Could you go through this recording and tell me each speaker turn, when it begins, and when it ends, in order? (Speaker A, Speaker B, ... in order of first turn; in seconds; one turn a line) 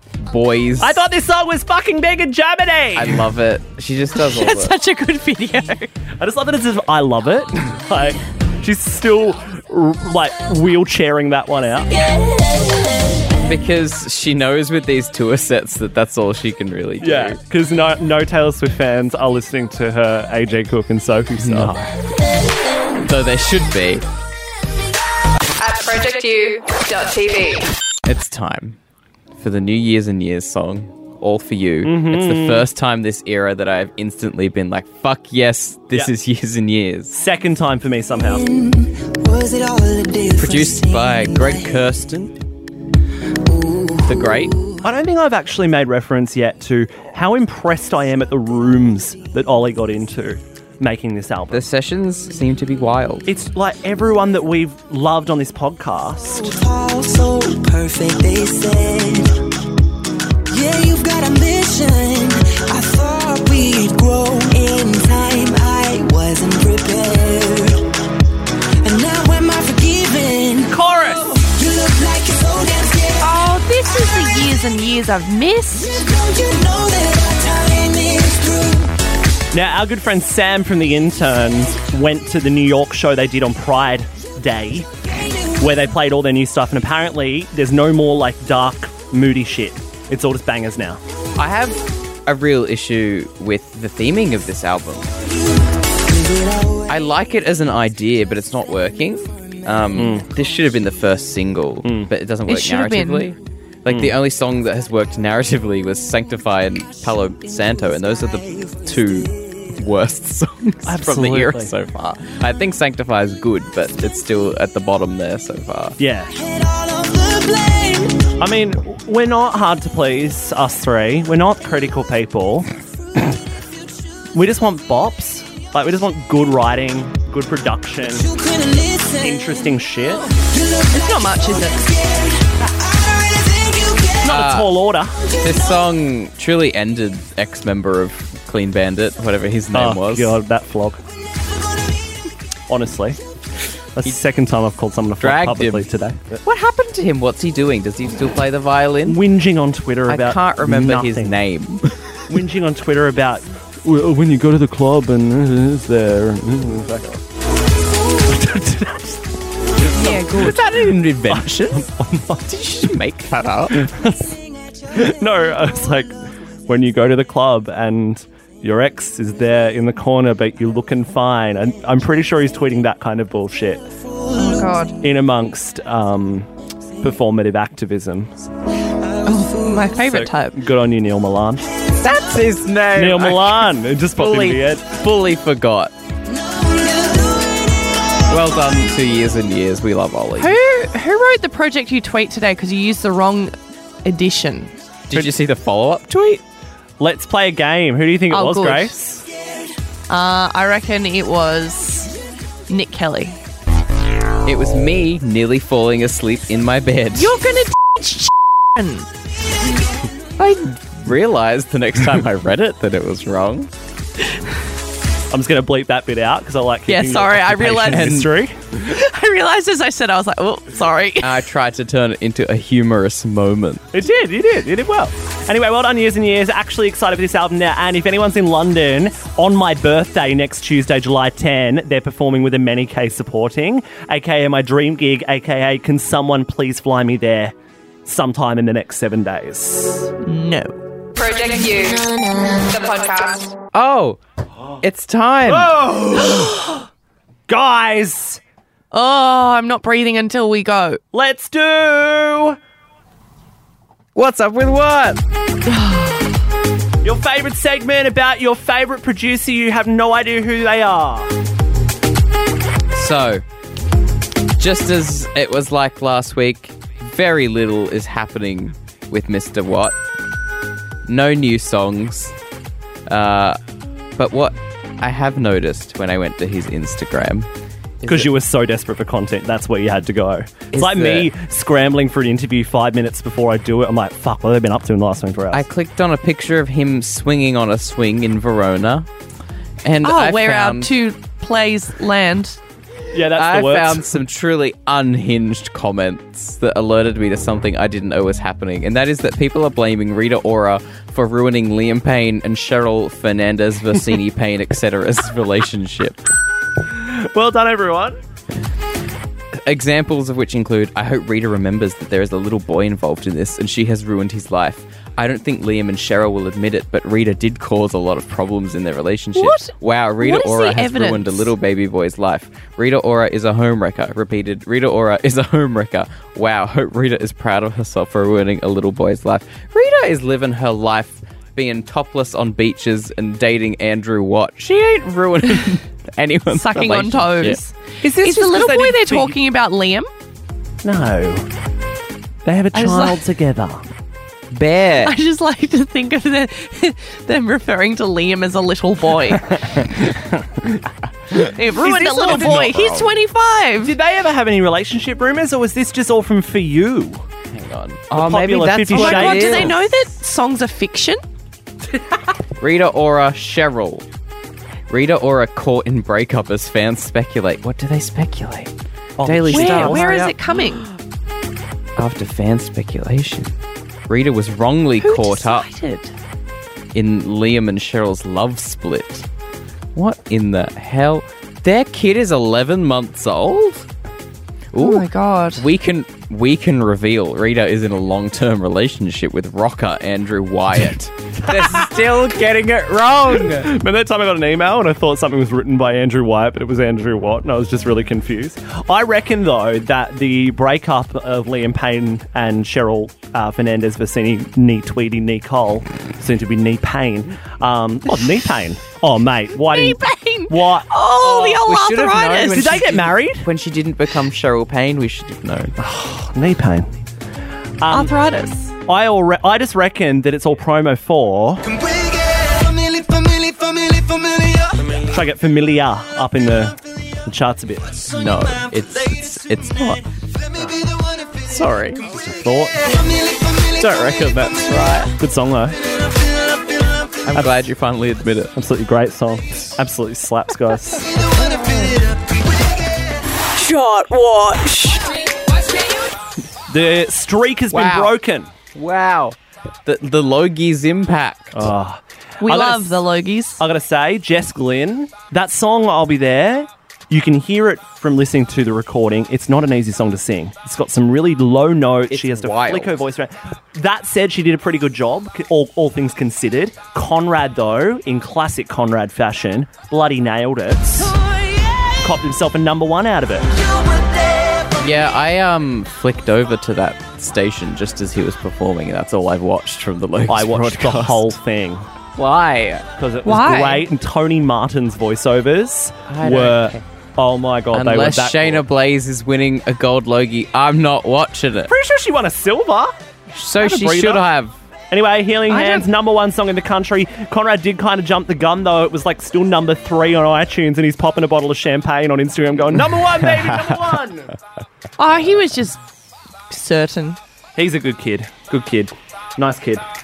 Speaker A: 0.2-1.0
Speaker B: 0.8-3.3
Speaker A: 3.0-4.8
Speaker C: 4.2-5.9
Speaker B: 6.2-12.1
Speaker A: 13.4-17.4
Speaker B: 17.0-21.8
Speaker A: 21.4-22.0
Speaker A: 23.0-24.1
Speaker D: 25.6-27.7
Speaker A: 28.1-28.8
Speaker A: 29.4-37.2
Speaker B: 31.8-32.7
Speaker B: 37.1-38.5
Speaker E: 38.3-41.7
Speaker A: 40.4-42.4
Speaker E: 43.5-44.4
Speaker A: 44.0-44.6
Speaker B: 44.8-51.6
Speaker A: 51.5-53.3
Speaker B: 53.3-56.5
Speaker E: 56.5-59.4
Speaker E: 60.5-67.9
Speaker E: 68.8-73.3
Speaker B: 70.7-71.2
Speaker C: 73.2-76.1
Speaker E: 75.9-78.9
Speaker B: 79.5-84.9
Speaker B: 85.6-91.0
Speaker A: 91.4-95.1
Speaker E: 96.1-96.9
Speaker A: 96.9-116.0
Speaker B: 99.9-100.3
Speaker B: 101.8-102.1
Speaker C: 102.5-103.3
Speaker B: 103.9-104.2
Speaker B: 110.8-111.7
Speaker B: 116.0-116.3
Speaker E: 116.4-118.3
Speaker B: 118.4-123.4
Speaker B: 124.3-128.3
Speaker E: 128.1-129.5
Speaker B: 129.2-130.3
Speaker E: 130.4-134.2
Speaker C: 130.9-131.8
Speaker B: 134.2-135.2
Speaker A: 134.3-134.8
Speaker A: 135.4-140.4
Speaker B: 139.7-141.0
Speaker B: 142.7-143.2
Speaker B: 144.0-146.4
Speaker A: 145.2-145.9
Speaker A: 146.4-149.2
Speaker B: 149.1-151.4
Speaker A: 150.1-152.2
Speaker B: 152.3-157.2
Speaker B: 158.2-159.3
Speaker B: 159.8-162.9
Speaker C: 159.9-160.6
Speaker A: 160.0-161.9
Speaker A: 162.5-163.9
Speaker B: 163.7-166.1
Speaker B: 166.7-173.8
Speaker C: 174.4-175.0
Speaker B: 175.0-176.5
Speaker B: 177.0-178.3
Speaker C: 179.2-180.6
Speaker B: 180.0-181.7
Speaker A: 182.0-185.9
Speaker B: 182.9-184.9
Speaker E: 186.5-187.6
Speaker A: 188.3-190.5
Speaker C: 190.4-194.8
Speaker A: 195.1-196.4
Speaker B: 197.0-199.2
Speaker C: 198.3-198.9
Speaker C: 200.1-202.1
Speaker C: 202.7-203.4
Speaker A: 204.4-207.4
Speaker C: 207.2-209.1
Speaker A: 210.4-213.7
Speaker B: 215.3-218.6
Speaker C: 216.9-218.1
Speaker A: 217.7-218.3
Speaker C: 218.8-221.4
Speaker A: 221.2-223.9
Speaker B: 223.9-237.6
Speaker B: 238.1-240.1
Speaker C: 240.2-240.8
Speaker D: 241.2-242.1
Speaker D: 242.7-243.6
Speaker A: 243.7-244.2
Speaker A: 244.8-245.7
Speaker B: 245.5-246.8
Speaker B: 247.5-248.4
Speaker C: 248.9-251.0
Speaker B: 251.1-252.6
Speaker A: 254.2-255.2
Speaker B: 257.0-261.3
Speaker A: 262.9-263.4
Speaker A: 264.6-270.0
Speaker A: 271.1-272.3
Speaker A: 273.1-273.6
Speaker A: 274.2-277.5
Speaker A: 278.0-278.3
Speaker B: 278.1-285.6
Speaker A: 280.7-281.3
Speaker A: 285.5-289.1
Speaker A: 289.8-290.9
Speaker C: 290.0-292.6
Speaker B: 293.1-294.2
Speaker A: 293.4-306.2
Speaker B: 306.9-308.2
Speaker A: 309.6-337.6
Speaker C: 319.4-321.5
Speaker C: 336.5-340.1
Speaker B: 338.0-339.4
Speaker B: 340.8-341.5
Speaker B: 342.4-343.9
Speaker C: 342.7-343.2
Speaker A: 344.5-345.1
Speaker C: 345.0-349.7
Speaker C: 351.3-353.9
Speaker B: 351.7-352.8
Speaker A: 352.2-353.1
Speaker B: 353.8-357.2
Speaker A: 357.5-359.8
Speaker B: 358.1-359.8
Speaker C: 358.9-361.2
Speaker A: 362.6-364.1
Speaker A: 364.9-368.7
Speaker B: 369.2-370.3
Speaker A: 369.2-370.9
Speaker C: 369.5-370.9
Speaker A: 372.0-373.5
Speaker A: 374.1-375.7
Speaker C: 375.0-376.1
Speaker A: 376.9-379.3
Speaker A: 379.9-383.9
Speaker A: 384.7-393.7
Speaker C: 384.8-385.6
Speaker B: 391.5-391.8
Speaker B: 393.3-410.9
Speaker C: 409.6-412.8
Speaker A: 411.2-415.8
Speaker B: 412.5-413.5
Speaker B: 415.8-416.9
Speaker B: 417.8-418.1
Speaker C: 417.9-418.7
Speaker B: 418.8-421.7
Speaker E: 421.7-424.9
Speaker B: 425.0-428.1
Speaker A: 428.1-430.1
Speaker E: 430.6-431.4
Speaker A: 431.5-432.1
Speaker B: 432.1-432.9
Speaker E: 432.9-433.9
Speaker A: 433.8-435.1
Speaker B: 435.2-435.8
Speaker A: 437.2-438.5
Speaker B: 437.3-437.6
Speaker B: 438.6-441.1
Speaker E: 441.4-442.2
Speaker A: 443.6-445.1
Speaker B: 446.7-448.5
Speaker A: 447.7-448.1
Speaker A: 448.8-451.6
Speaker B: 451.5-453.0
Speaker C: 452.4-453.6
Speaker B: 453.6-471.2
Speaker A: 462.1-463.0
Speaker B: 472.0-473.5
Speaker E: 473.8-474.8
Speaker A: 474.8-481.3
Speaker B: 480.3-481.9
Speaker A: 482.2-482.9
Speaker B: 483.0-488.6
Speaker C: 483.2-483.9
Speaker A: 486.1-486.8
Speaker A: 487.7-491.7
Speaker B: 491.7-492.9
Speaker A: 493.3-494.6
Speaker B: 493.6-494.3
Speaker B: 494.9-504.4
Speaker C: 495.5-495.9
Speaker C: 505.0-505.8
Speaker C: 506.5-507.2
Speaker B: 507.6-509.9